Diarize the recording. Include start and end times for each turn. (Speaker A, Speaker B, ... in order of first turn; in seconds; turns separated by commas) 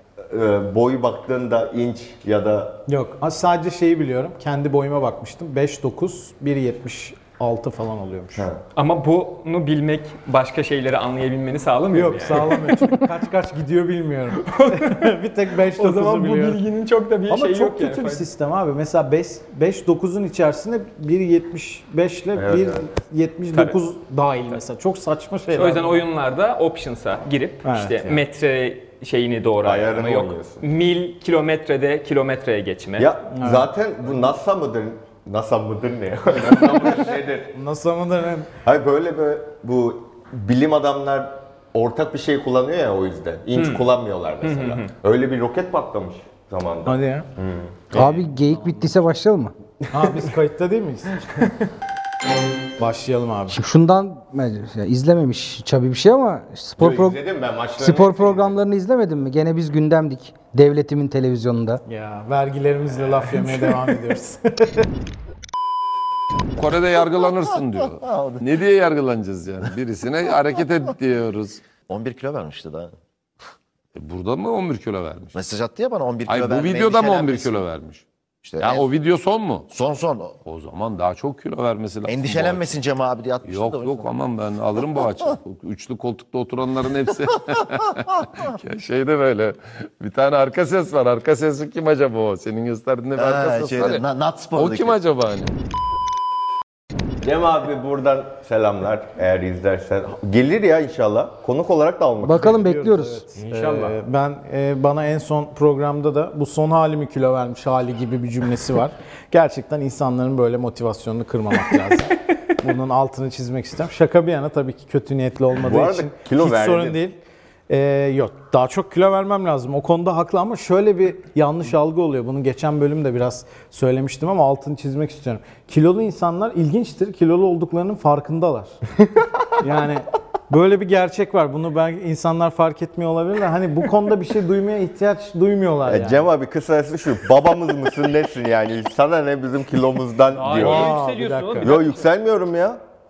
Speaker A: 0.3-2.8, Speaker B: 2.9-8.5, Speaker A: 8.4-8.6, Speaker C: 8.8-13.0, Speaker B: 11.9-16.6, Speaker C: 14.4-15.1, Speaker C: 15.7-18.2, Speaker B: 17.3-26.0, Speaker A: 22.4-22.9, Speaker C: 25.5-33.1, Speaker B: 27.6-28.2, Speaker A: 29.6-30.6, Speaker A: 33.0-37.5, Speaker B: 33.3-33.7, Speaker B: 37.5-38.5, Speaker A: 38.6-47.9, Speaker C: 43.5-43.9, Speaker C: 44.4-44.9, Speaker B: 46.9-47.3, Speaker B: 47.9-48.4, Speaker D: 47.9-49.5, Speaker B: 49.9-51.2, Speaker B: 52.8-53.6, Speaker D: 53.5-57.2, Speaker A: 56.8-58.6, Speaker D: 57.8-61.8, Speaker B: 61.9-64.9, Speaker E: 66.6-71.6, Speaker F: 68.0-68.5, Speaker F: 71.9-73.0, Speaker E: 74.0-75.3, Speaker F: 75.3-77.6, Speaker E: 76.3-78.0, Speaker F: 78.4-78.9, Speaker E: 78.6-79.7, Speaker F: 79.7-80.4, Speaker E: 80.4-82.8, Speaker F: 82.0-84.1, Speaker E: 83.5-95.5, Speaker F: 93.2-95.0, Speaker A: 97.2-102.5, Speaker D: 102.2-103.2, Speaker B: 102.2-117.2, Speaker A: 115.6-117.0, Speaker B: 117.7-128.8, Speaker B: 129.6-136.3, Speaker A: 135.9-140.9, Speaker C: 140.3-142.1, Speaker B: 140.5-141.7, Speaker A: 141.6-142.8